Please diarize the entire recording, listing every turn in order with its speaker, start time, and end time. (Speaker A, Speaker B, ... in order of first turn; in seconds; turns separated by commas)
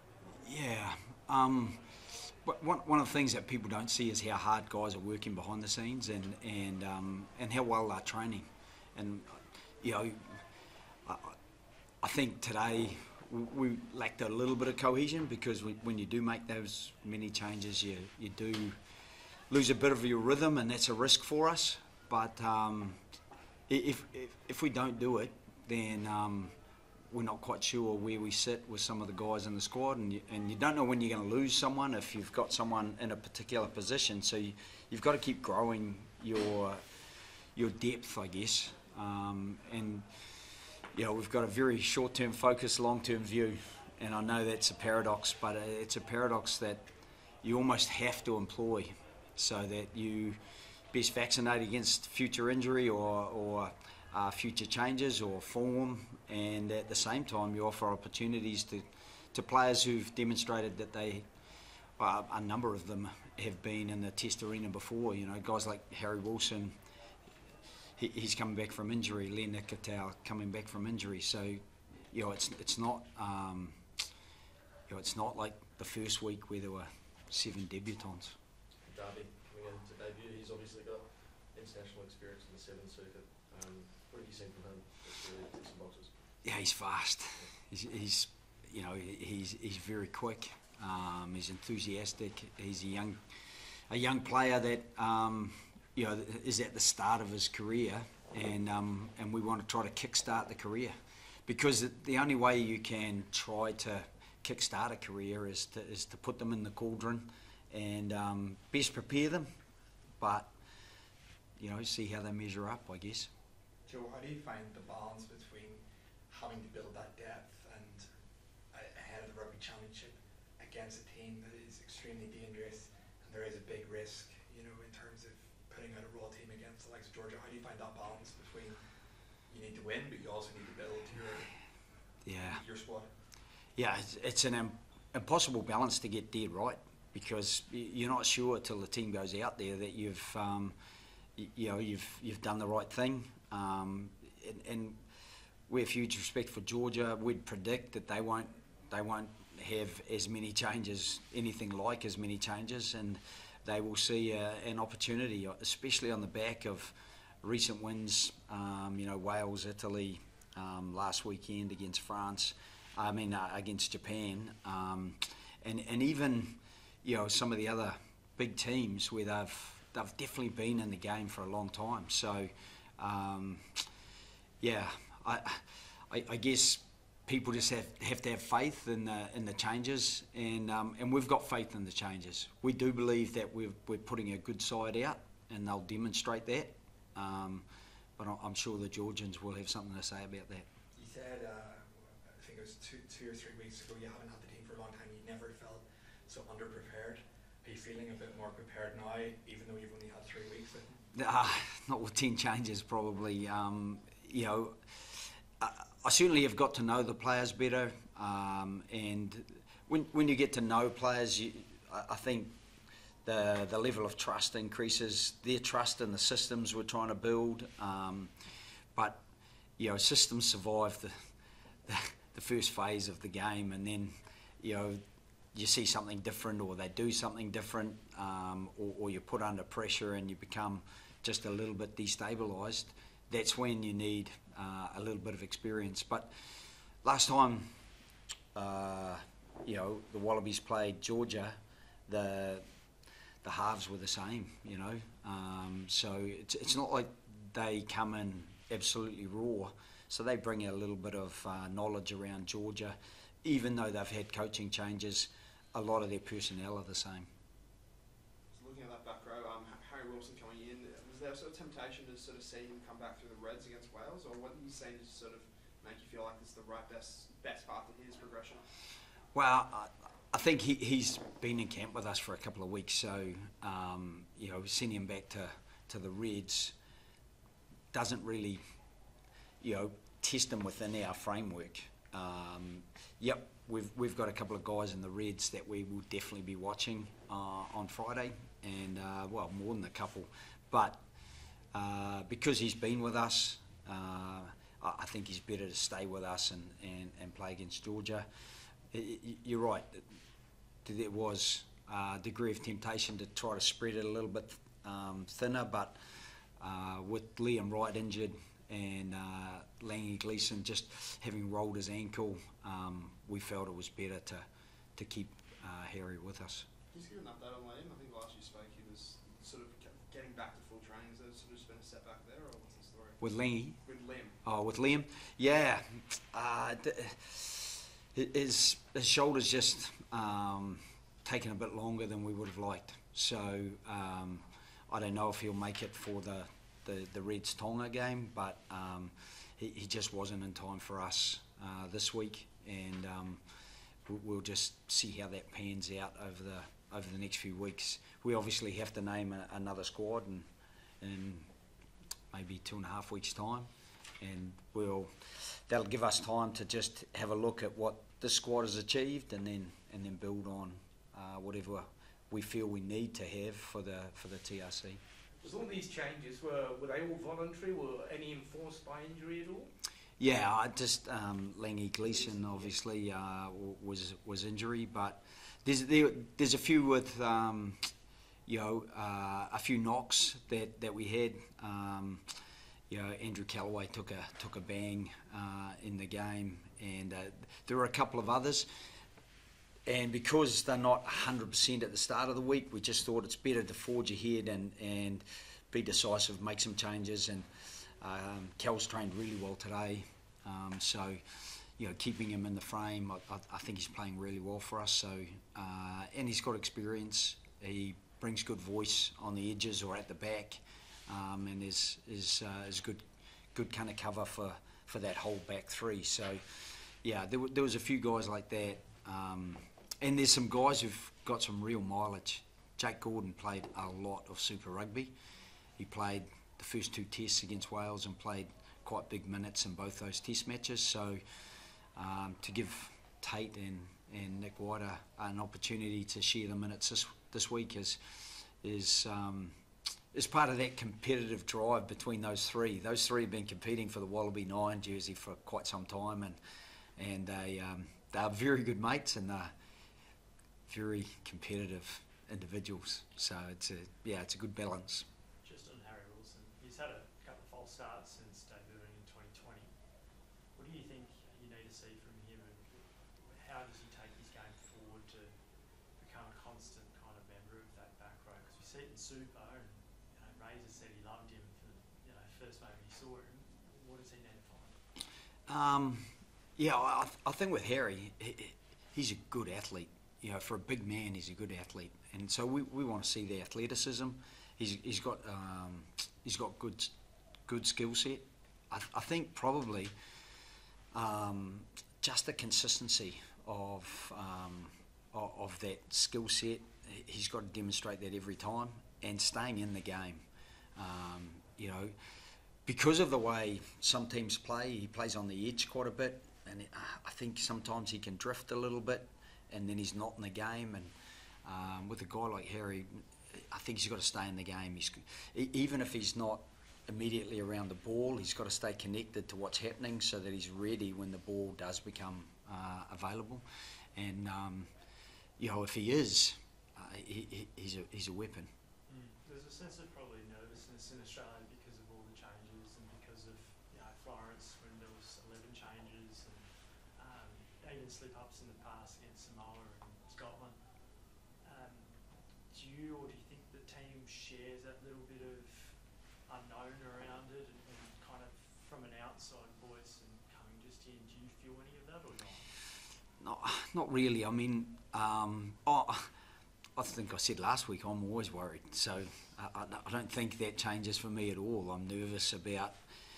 Speaker A: 0.3-10.4, Speaker A: 11.0-11.4, Speaker A: 12.0-18.8, Speaker A: 19.5-23.0, Speaker A: 23.7-26.5, Speaker A: 27.1-36.8, Speaker A: 37.5-40.1, Speaker A: 40.9-46.9, Speaker A: 47.4-50.4, Speaker A: 50.9-61.3, Speaker A: 62.0-66.8, Speaker A: 68.0-73.8, Speaker A: 74.9-78.3, Speaker B: 78.8-86.3, Speaker A: 86.4-93.2, Speaker A: 93.9-100.9, Speaker A: 101.5-109.5, Speaker A: 110.2-110.5, Speaker A: 111.6-113.3, Speaker C: 113.8-118.1, Speaker C: 118.7-128.8, Speaker C: 129.5-131.6, Speaker A: 132.2-132.6, Speaker C: 132.4-133.1, Speaker A: 133.8-140.8, Speaker A: 141.3-145.0, Speaker A: 145.7-173.9, Speaker A: 174.6-190.7, Speaker C: 190.9-201.0, Speaker A: 201.1-212.5, Speaker A: 213.2-218.3, Speaker A: 218.9-219.2, Speaker A: 219.8-221.1, Speaker A: 221.8-225.0, Speaker A: 225.5-236.3, Speaker A: 237.0-237.7, Speaker A: 238.5-242.6, Speaker A: 243.4-257.3, Speaker D: 258.5-268.6, Speaker A: 269.3-276.7, Speaker A: 277.9-278.6, Speaker A: 279.6-291.0, Speaker A: 291.7-298.3, Speaker A: 298.9-300.1, Speaker A: 300.8-316.6, Speaker D: 316.9-323.3, Speaker A: 323.2-323.8, Speaker D: 323.8-324.4, Speaker A: 324.4-343.4, Speaker A: 344.1-350.5, Speaker A: 351.0-351.5, Speaker A: 352.3-353.7, Speaker A: 354.2-365.0, Speaker E: 365.4-369.7, Speaker A: 370.2-377.8, Speaker E: 372.2-372.7, Speaker A: 378.5-382.2, Speaker A: 382.9-388.7, Speaker A: 389.9-413.0, Speaker A: 413.5-425.1, Speaker A: 425.8-431.2, Speaker A: 431.9-439.5, Speaker A: 440.1-446.4, Speaker A: 447.0-449.5, Speaker A: 450.7-455.1, Speaker F: 455.4-459.7, Speaker F: 460.5-465.4, Speaker F: 465.9-474.8, Speaker A: 475.5-486.9, Speaker A: 487.5-489.9, Speaker A: 490.9-500.2, Speaker A: 500.8-501.9, Speaker A: 502.6-510.9, Speaker A: 511.4-523.4, Speaker A: 523.9-524.7, Speaker A: 525.4-528.5, Speaker F: 528.9-540.7, Speaker F: 541.4-552.5, Speaker A: 553.2-556.1, Speaker A: 556.8-562.8